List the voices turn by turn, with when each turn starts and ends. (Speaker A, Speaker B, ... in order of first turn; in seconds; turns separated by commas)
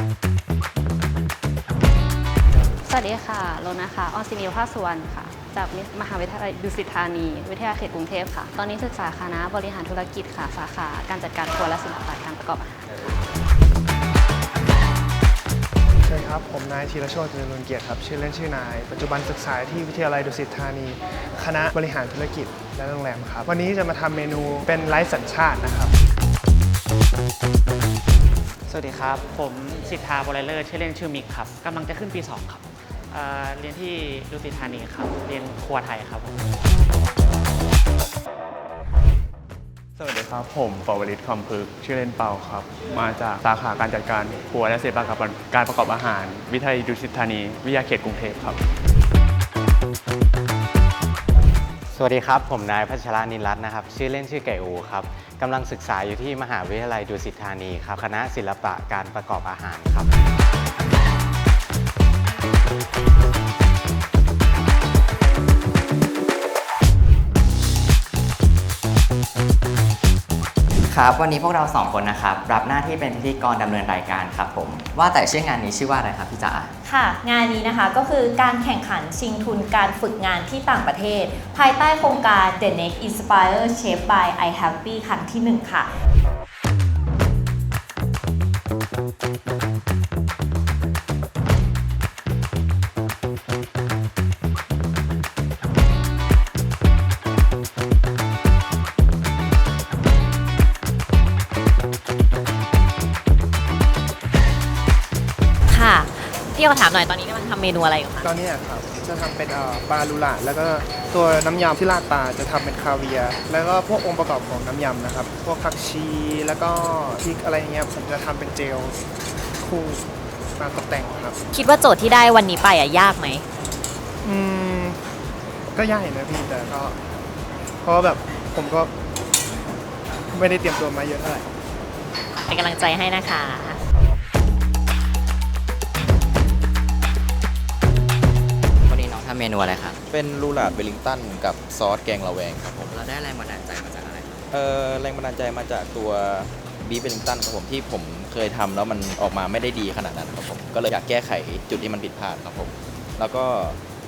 Speaker A: 2.8-12.9, Speaker B: 16.1-25.9, Speaker C: 28.7-36.3, Speaker D: 40.0-48.6, Speaker E: 51.9-60.1, Speaker F: 70.9-76.7, Speaker G: 76.8-85.9, Speaker H: 105.7-108.2, Speaker B: 108.2-119.0, Speaker B: 119.6-121.4, Speaker H: 121.5-123.4, Speaker B: 124.2-125.0, Speaker B: 125.7-127.0, Speaker B: 127.8-128.9, Speaker B: 130.3-131.5, Speaker H: 132.5-133.8, Speaker F: 138.9-140.0, Speaker I: 140.1-142.9, Speaker F: 142.9-144.5, Speaker I: 144.5-153.8